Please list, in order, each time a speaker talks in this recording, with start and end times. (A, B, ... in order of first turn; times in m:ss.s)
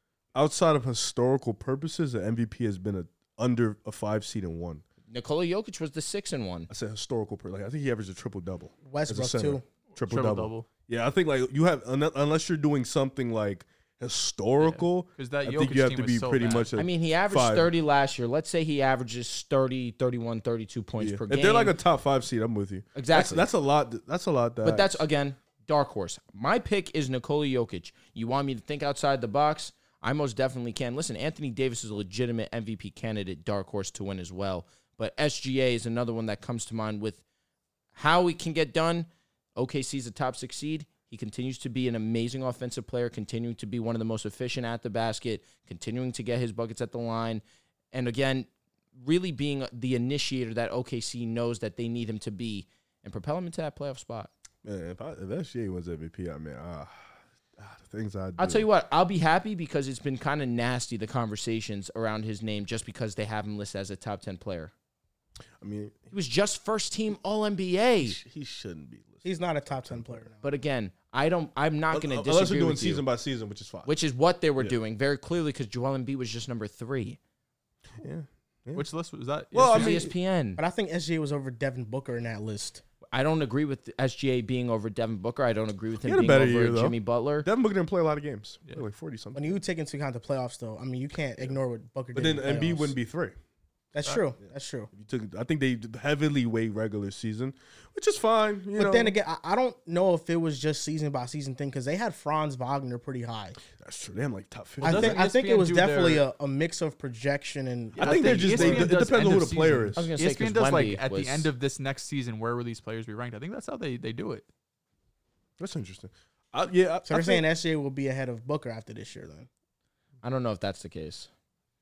0:00.3-0:04.8 A
0:05.1-0:06.7 B
0:06.7-0:17.7 A
0:08.8-0:09.6 C
0:09.9-0:10.7 D
0:14.6-0:16.7 D
0:16.8-0:21.8 B
0:21.0-0:25.0 A
0:22.9-0:23.5 B
0:24.6-0:37.2 B
0:37.9-0:47.4 B
0:47.9-0:54.3 B
0:54.6-0:57.0 A
0:57.6-0:58.7 A
0:58.4-1:04.7 B
1:05.6-1:06.1 A
1:06.1-1:08.2 B
1:08.0-1:09.3 A
1:09.2-1:10.4 C
1:09.8-1:10.2 A
1:10.4-1:13.0 B
1:11.9-1:13.9 A
1:13.8-1:17.2 B
1:18.0-1:18.8 A
1:18.7-1:20.0 D
1:19.5-1:20.1 A
1:19.7-1:20.6 B
1:20.6-1:22.8 C
1:23.1-1:27.5 B
1:26.0-1:29.6 A
1:29.3-1:33.0 C
1:32.1-1:33.3 A
1:33.9-1:34.9 C
1:34.9-1:39.1 A
1:38.7-1:43.6 C
1:43.7-1:45.2 A
1:44.8-1:48.9 C
1:44.8-1:46.2 D
1:47.9-1:54.4 D
1:48.0-1:50.1 A
1:50.0-1:51.5 B
1:55.6-1:57.4 A
1:57.0-1:59.5 C
2:00.2-2:01.3 B